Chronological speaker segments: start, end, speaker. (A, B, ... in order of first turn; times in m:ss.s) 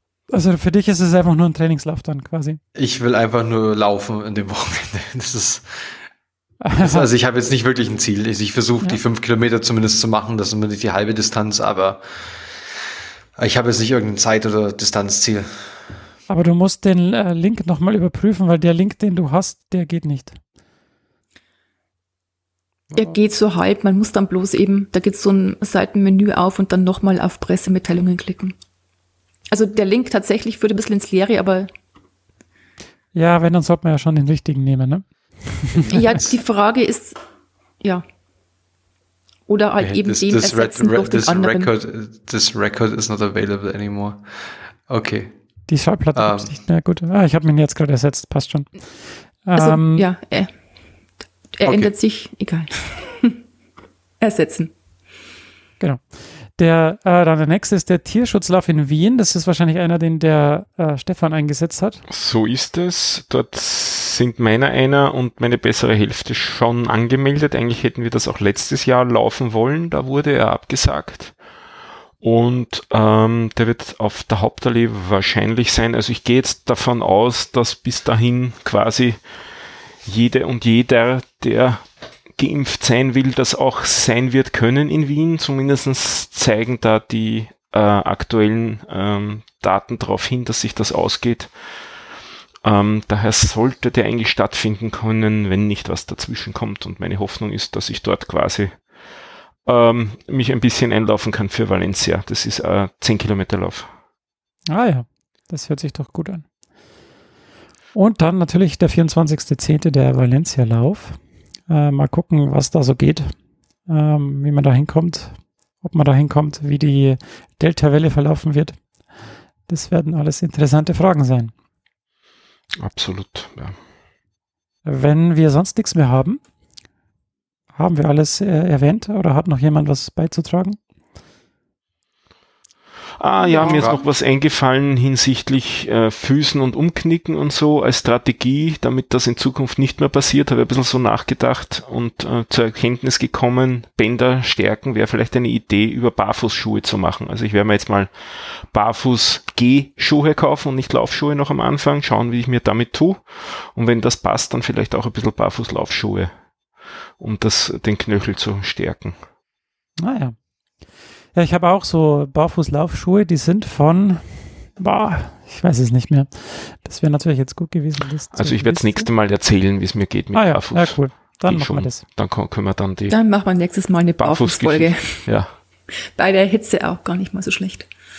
0:00.3-0:02.6 A
0:02.7-0:05.9 B
0:06.6-0:07.1 A
0:06.8-0:12.0 B
0:13.4-0:15.5 B
0:16.3-0:20.4 A
0:22.9-0:28.6 C
0:29.5-0:31.7 C
0:33.1-0:35.9 A
0:35.8-0:36.2 B
0:35.9-0:37.2 C
0:39.5-0:41.7 C
0:39.8-0:44.2 B
0:44.9-0:45.3 B
0:45.7-0:50.0 A
0:46.1-0:46.6 B
0:49.6-0:50.5 C
0:51.5-0:53.4 C
0:51.6-0:51.9 B
0:54.2-0:54.7 C
0:55.8-1:02.0 A
1:02.1-1:11.4 D
1:12.2-1:19.2 D
1:20.0-1:21.8 D
1:22.4-1:31.5 D
1:32.6-1:39.0 D
1:39.6-1:43.9 D
1:44.7-1:46.4 A
1:47.9-1:53.3 A
1:53.9-1:58.9 A
1:59.7-2:01.5 A
2:02.8-2:03.8 D
2:04.8-2:06.4 A
2:07.7-2:10.8 A
2:13.2-2:39.2 D
2:13.4-2:14.0 C
2:13.6-2:14.0 B
2:40.0-2:40.4 A
2:41.3-2:49.1 A
2:48.3-2:53.2 D
2:50.3-2:52.0 A
2:53.1-2:55.4 C
2:54.2-2:55.5 D
2:56.2-2:57.9 C